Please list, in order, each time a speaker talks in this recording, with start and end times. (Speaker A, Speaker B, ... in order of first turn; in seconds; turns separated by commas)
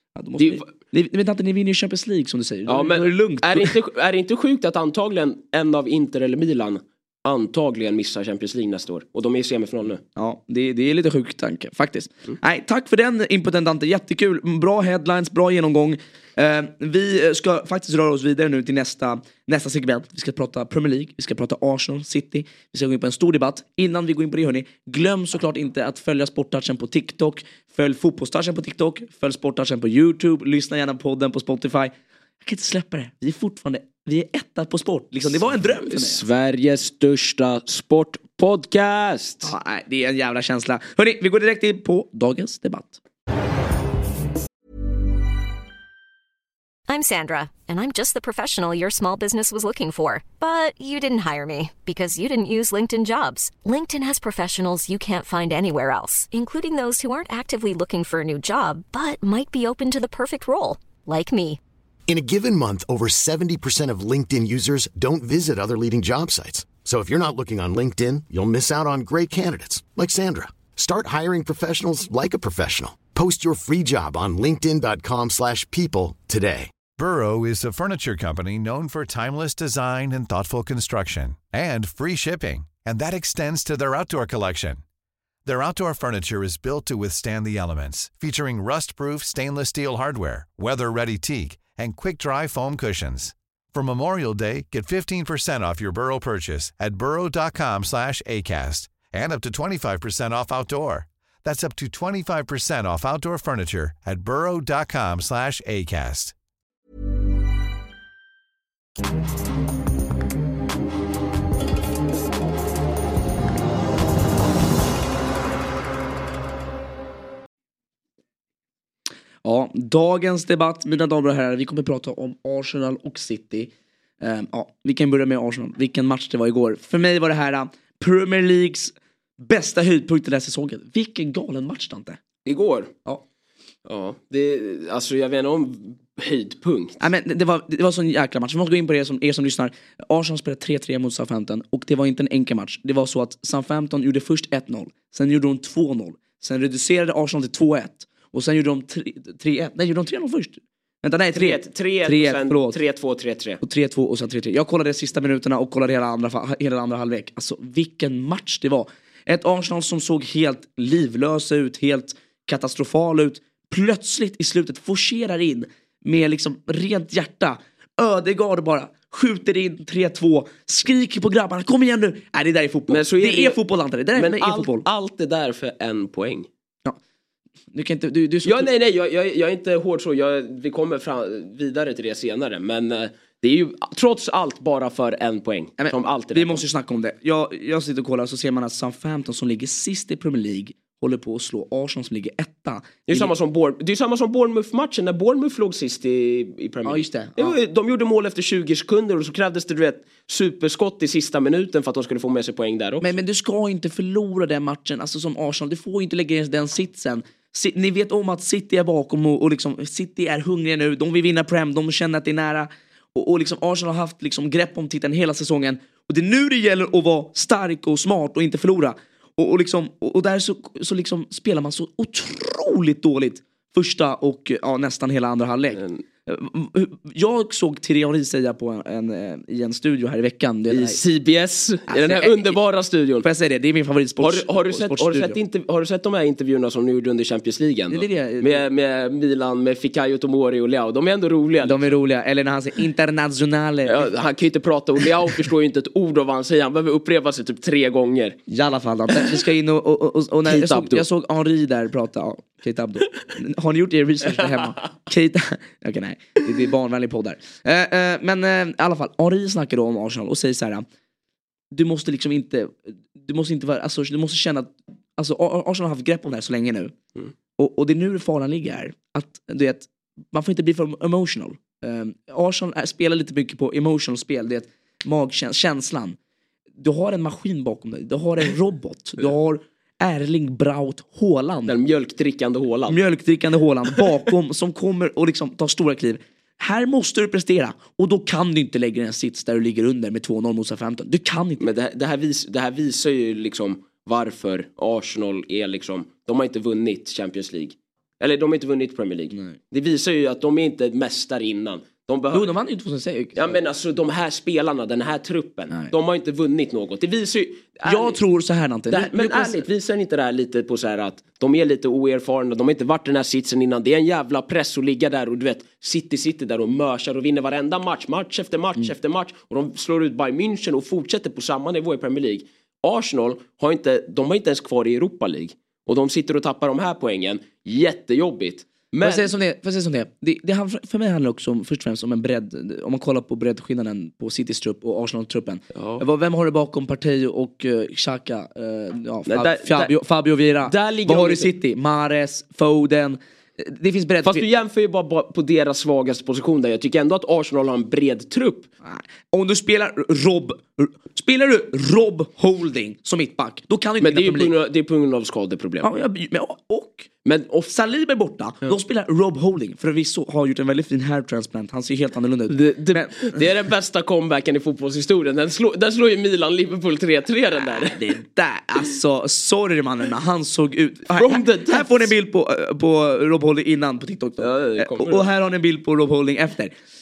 Speaker A: 0.1-3.8, Speaker B: 0.4-0.7, Speaker B: 2.7-10.0, Speaker A: 10.2-36.2, Speaker B: 35.9-39.5, Speaker A: 39.4-43.0, Speaker C: 46.9-61.6, Speaker D: 62.1-76.7, Speaker E: 77.0-84.8, Speaker E: 85.4-106.3, Speaker A: 119.4-132.2, Speaker B: 132.4-132.9, Speaker B: 133.8-137.0, Speaker A: 137.0-152.8, Speaker B: 151.3-153.6, Speaker A: 153.6-174.8, Speaker B: 172.9-173.6, Speaker B: 174.1-176.5, Speaker A: 177.7-178.7, Speaker B: 178.4-186.6, Speaker A: 185.8-193.3, Speaker B: 193.1-203.1, Speaker A: 196.8-197.6, Speaker A: 203.0-231.0, Speaker B: 225.7-226.0, Speaker B: 230.7-233.2, Speaker A: 231.9-232.5, Speaker A: 233.2-235.4, Speaker B: 234.2-241.9, Speaker A: 237.9-238.6, Speaker A: 241.6-244.1, Speaker B: 243.8-248.4, Speaker A: 248.5-260.9, Speaker B: 249.1-249.3, Speaker B: 250.4-251.0, Speaker A: 261.7-266.9, Speaker A: 267.6-276.2, Speaker A: 276.8-281.7, Speaker B: 281.7-283.0, Speaker A: 282.9-291.7, Speaker B: 291.6-302.5, Speaker A: 302.3-303.5, Speaker B: 303.3-308.2, Speaker A: 307.8-309.6, Speaker B: 308.9-329.3, Speaker A: 329.0-344.5, Speaker B: 335.7-336.0, Speaker B: 339.2-339.9, Speaker B: 340.6-341.5, Speaker B: 344.2-348.7, Speaker A: 348.8-354.5, Speaker B: 354.0-355.9, Speaker A: 355.8-357.1, Speaker B: 357.2-357.7, Speaker A: 357.7-363.2, Speaker B: 362.5-368.1, Speaker A: 367.6-376.7, Speaker B: 371.1-372.1, Speaker B: 374.4-375.3